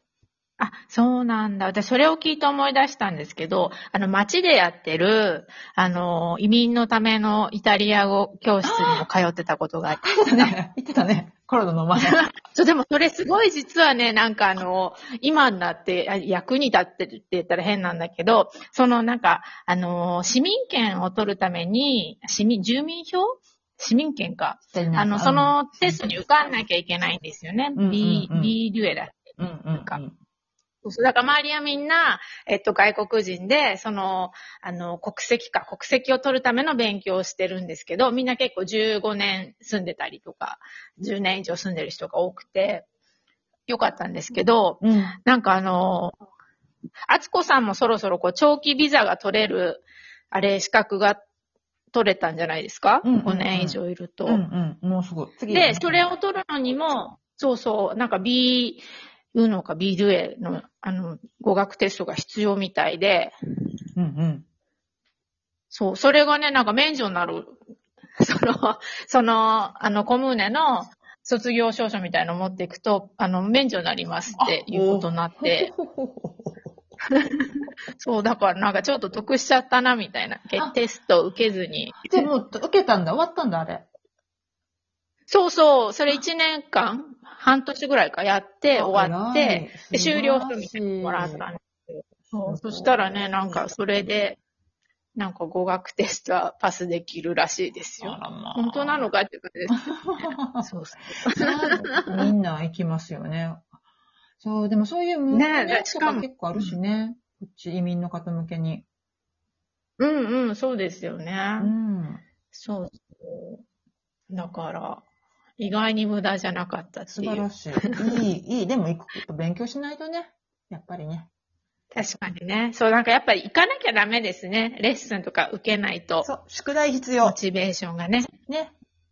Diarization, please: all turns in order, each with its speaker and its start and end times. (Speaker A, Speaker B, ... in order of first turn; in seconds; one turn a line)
Speaker A: 0.6-10.5
Speaker B: 8.7-9.1
Speaker B: 9.9-12.3
Speaker A: 12.1-30.0
Speaker B: 24.7-26.0
Speaker B: 27.8-28.6
Speaker B: 29.4-30.2
Speaker A: 30.8-42.9
Speaker A: 43.7-46.2
Speaker B: 44.8-45.2
Speaker A: 47.1-51.2
Speaker A: 51.9-54.4
Speaker B: 53.0-56.1
Speaker A: 55.5-63.4
Speaker B: 64.0-64.5
Speaker A: 65.7-67.6
Speaker A: 68.2-75.7
Speaker B: 74.4-76.8
Speaker A: 77.1-82.3
Speaker B: 82.0-83.9
Speaker A: 85.3-94.4
Speaker B: 88.7-91.5
Speaker B: 92.4-93.6
Speaker A: 95.2-99.9
Speaker B: 98.0-99.1
Speaker B: 99.8-100.7
Speaker A: 100.6-102.3
Speaker B: 101.3-103.7
Speaker B: 104.4-108.8
Speaker A: 105.3-106.7
Speaker A: 110.0-111.7
Speaker B: 111.6-112.2
Speaker A: 112.5-113.6
Speaker A: 114.3-115.0
Speaker A: 115.6-117.6
Speaker B: 117.1-121.3
Speaker A: 121.9-126.3
Speaker B: 126.2-127.4
Speaker A: 127.2-128.3
Speaker B: 128.5-128.8